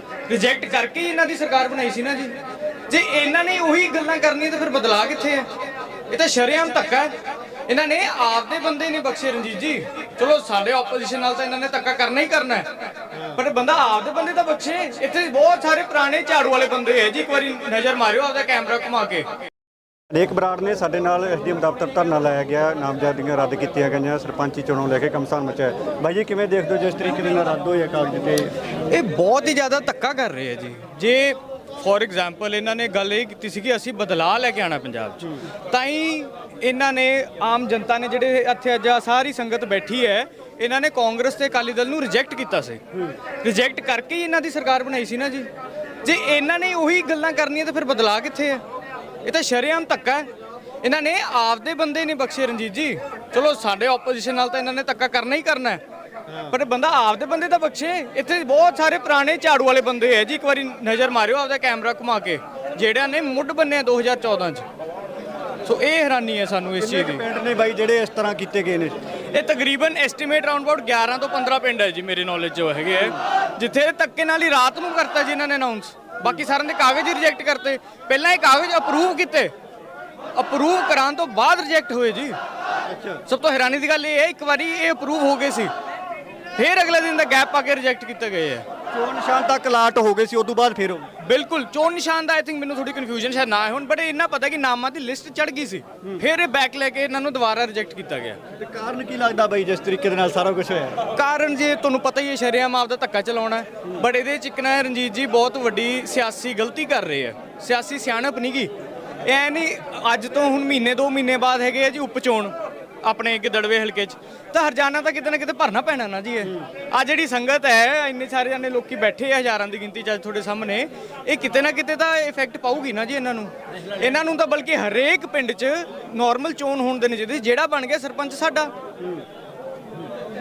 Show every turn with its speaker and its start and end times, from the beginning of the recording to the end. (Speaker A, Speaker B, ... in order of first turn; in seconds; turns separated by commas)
Speaker A: 0.3-2.4, Speaker A: 2.9-5.5, Speaker A: 6.1-7.1, Speaker A: 7.7-12.7, Speaker A: 13.3-19.4, Speaker B: 20.1-28.5, Speaker A: 28.9-45.5, Speaker A: 46.0-48.6, Speaker A: 49.2-50.3, Speaker A: 50.8-55.8, Speaker B: 56.3-56.6, Speaker A: 56.5-64.7, Speaker A: 65.6-67.2, Speaker B: 66.8-69.0, Speaker A: 69.3-79.5, Speaker A: 80.3-82.4, Speaker B: 82.8-83.2, Speaker A: 83.3-85.7, Speaker A: 86.5-88.6, Speaker B: 88.9-91.1, Speaker A: 91.2-98.4, Speaker B: 98.6-101.0, Speaker A: 101.1-108.7, Speaker A: 109.2-112.5, Speaker A: 113.0-128.7, Speaker B: 129.0-129.2